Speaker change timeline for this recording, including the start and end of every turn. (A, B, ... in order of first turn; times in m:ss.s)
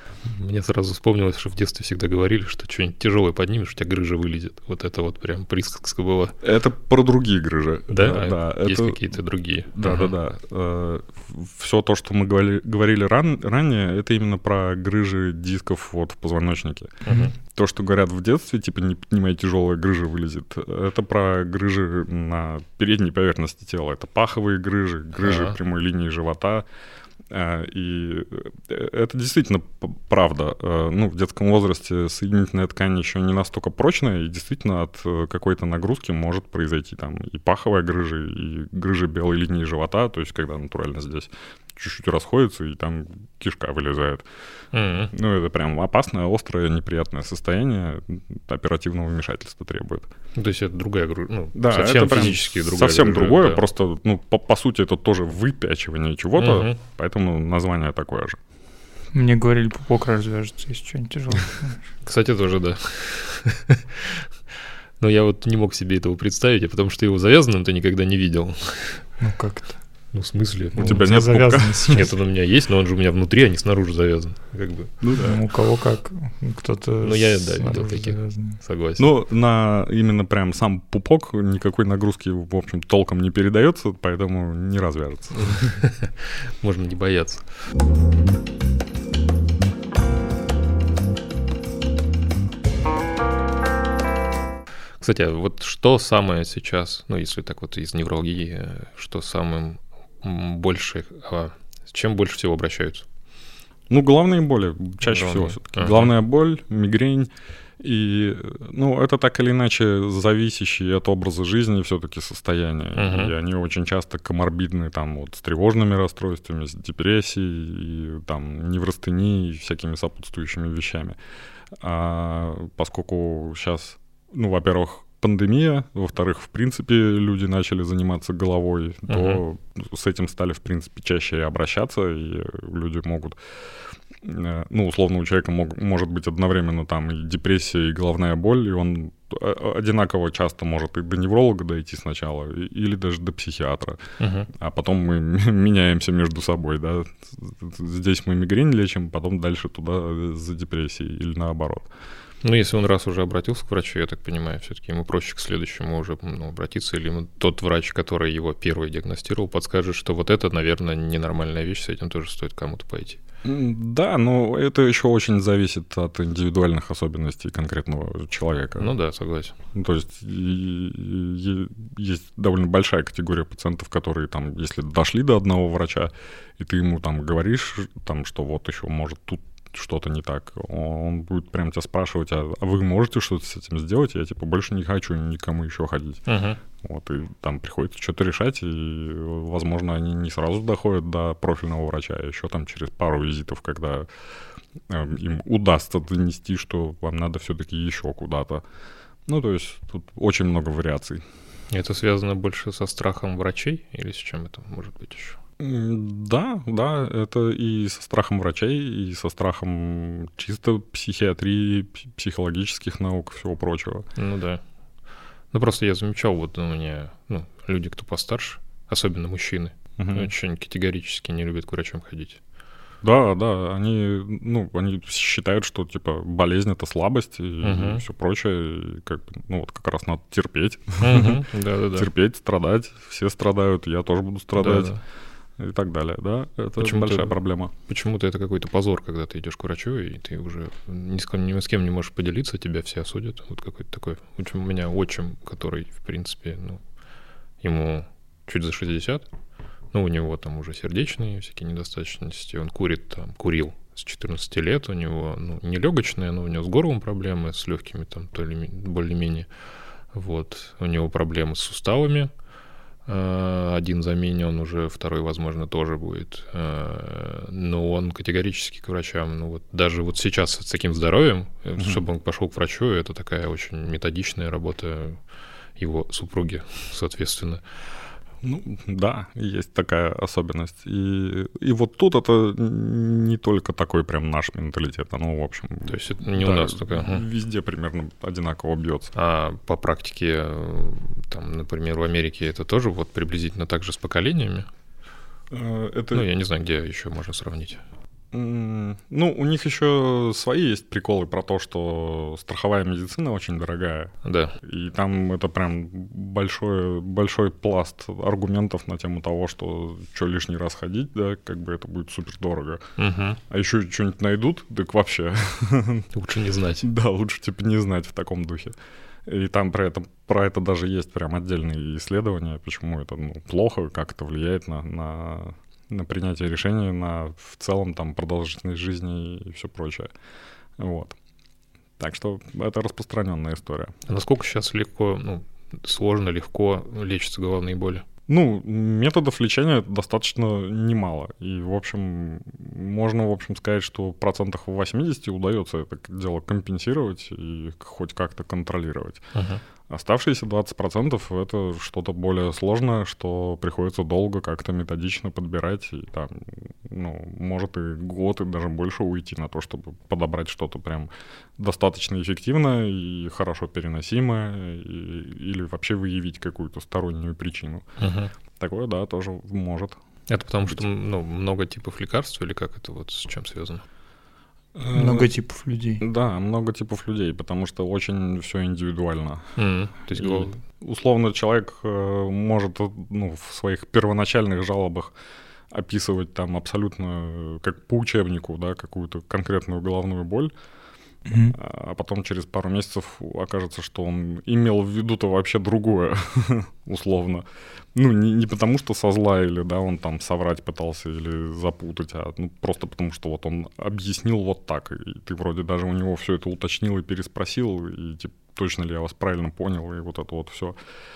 0:00.3-0:06.4 A
0:06.4-0:09.0 B
0:07.9-0:10.1 A
0:09.7-0:26.6 B
0:17.0-0:17.4 A
0:25.2-0:25.6 A
0:27.3-0:44.2 B
0:44.7-0:45.1 A
0:45.1-0:50.1 B
0:50.4-0:53.6 A
0:51.6-0:58.4 B
0:56.4-0:56.8 A
0:59.1-1:01.8 C
1:02.0-1:04.2 A
1:05.0-1:09.1 A
1:09.2-1:09.8 C
1:10.1-1:11.1 A
1:10.8-1:12.0 B
1:10.8-1:12.1 C
1:11.9-1:15.4 A
1:15.0-1:15.4 B
1:15.2-1:18.6 C
1:17.0-1:19.0 A
1:19.0-1:25.7 B
1:25.3-1:27.5 A
1:35.0-1:43.1 A
1:43.9-2:01.2 B
1:45.1-1:46.1 A
1:53.0-1:53.3 A
2:01.8-2:13.4 B
2:09.1-2:09.4 A
2:14.2-2:31.9 B
2:24.2-2:24.5 A
2:32.4-2:43.2 A
2:43.4-2:48.9 B
2:48.8-2:49.6 A
2:49.7-3:06.2 B
3:06.3-3:06.6 A
3:06.8-3:14.1 B
3:14.9-3:18.6 B
3:19.3-3:21.2 B
3:21.7-3:25.4 A
3:25.6-3:34.0 B
3:34.2-3:34.6 A
3:35.5-3:42.4 A
3:40.0-3:40.3 B
3:43.0-3:51.4 B
3:47.6-3:48.0 A
3:51.0-3:52.1 A
3:52.0-3:54.9 B
3:54.6-3:55.0 A
3:55.6-3:57.7 B
3:56.8-3:57.4 A
3:57.9-4:06.8 A
4:07.6-4:09.3 A
4:09.9-4:19.5 A
4:20.1-4:22.3 A
4:23.1-4:35.2 A
4:35.8-4:37.6 A
4:38.4-4:49.1 B
4:45.8-4:47.2 A
4:49.2-4:54.7 A
4:55.5-4:56.3 B
4:56.1-4:57.8 A
4:58.3-5:12.8 B
5:04.2-5:04.6 A
5:13.0-5:13.4 A
5:13.5-5:16.1 B
5:16.1-5:16.9 A
5:16.8-5:18.8 B
5:19.3-5:30.1 B
5:30.8-5:31.2 B
5:32.0-5:34.0 B
5:34.1-5:38.0 A
5:38.3-5:49.2 B
5:49.3-5:49.6 A
5:49.9-6:07.8 B
6:08.0-6:08.3 A
6:08.6-6:10.0 B
6:10.3-6:13.8 A
6:14.8-6:15.3 B
6:14.9-6:16.0 C
6:16.0-6:19.4 B
6:19.6-6:20.6 A
6:20.1-6:25.1 B
6:25.7-6:30.5 B
6:31.3-6:31.6 C
6:31.5-6:37.4 B
6:38.0-6:50.8 B